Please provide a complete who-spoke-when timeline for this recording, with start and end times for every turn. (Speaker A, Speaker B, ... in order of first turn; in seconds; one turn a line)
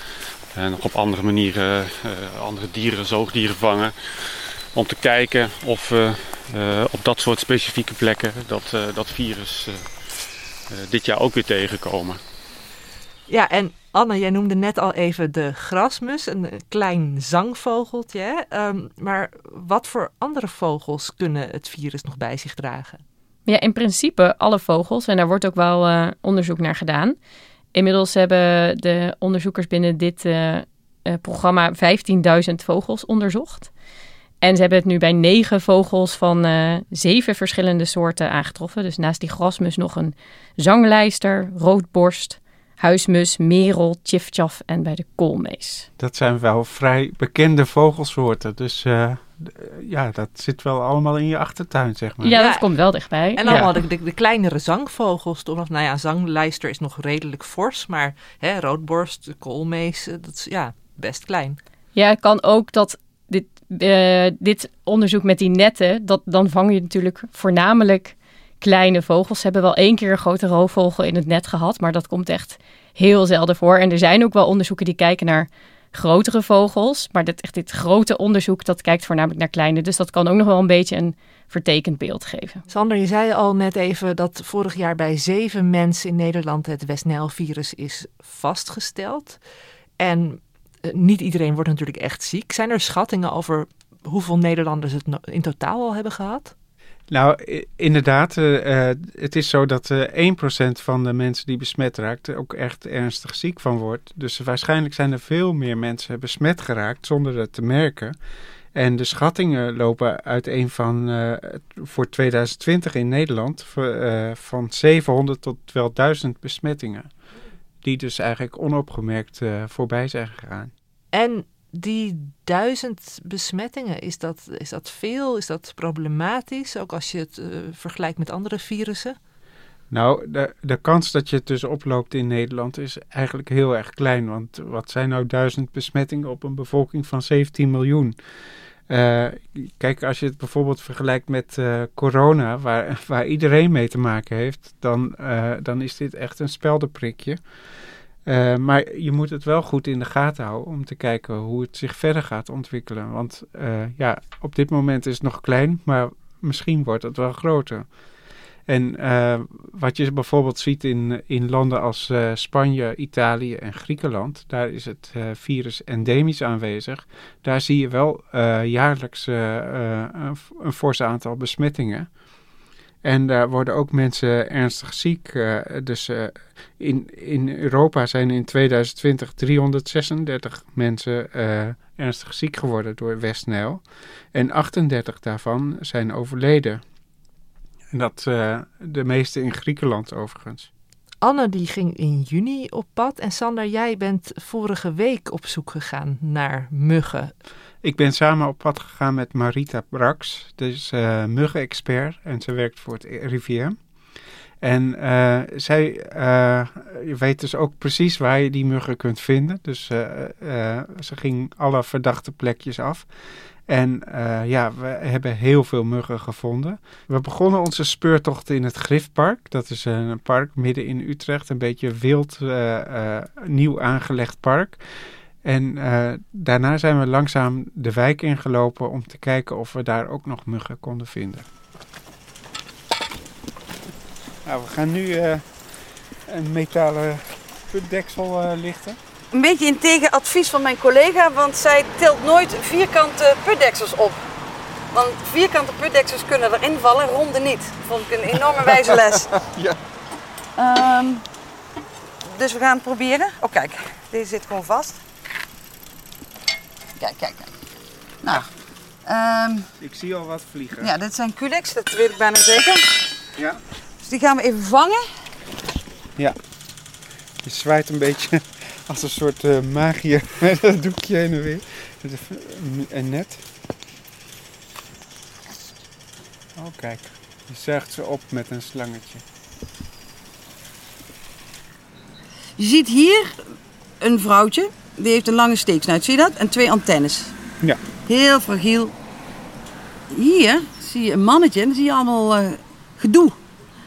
Speaker A: 0.5-12.2
Speaker B: 13.3-23.0
Speaker C: 23.4-27.2
Speaker C: 27.7-33.7
Speaker C: 34.4-45.9
Speaker D: 46.0-52.4
Speaker C: 52.2-53.7
Speaker B: 52.3-61.6
Speaker D: 53.5-53.7
Speaker C: 61.9-82.6
Speaker B: 82.7-89.4
Speaker B: 90.0-96.5
Speaker D: 97.1-108.2
Speaker D: 108.7-117.1
Speaker D: 117.8-120.7
Speaker B: 121.1-129.2
Speaker D: 129.9-138.2
Speaker D: 138.9-147.4
Speaker D: 148.2-157.9
Speaker D: 158.7-172.1
Speaker D: 173.0-186.8
Speaker D: 187.9-190.7
Speaker B: 191.2-197.3
Speaker D: 197.8-203.8
Speaker D: 204.6-213.1
Speaker D: 213.7-224.8
Speaker D: 225.4-231.4
Speaker D: 234.4-235.5
Speaker D: 236.3-239.0
Speaker E: 239.3-244.2
Speaker E: 244.9-249.2
Speaker D: 249.3-249.8
Speaker E: 250.6-251.2
Speaker E: 252.3-255.0
Speaker E: 257.0-257.5
Speaker E: 259.1-259.6
Speaker D: 259.8-260.9
Speaker E: 260.8-262.8
Speaker E: 264.0-265.0
Speaker D: 267.4-273.4
Speaker D: 276.6-279.2
Speaker E: 282.6-283.2
Speaker E: 284.0-287.3
Speaker E: 288.1-288.9
Speaker E: 290.1-293.3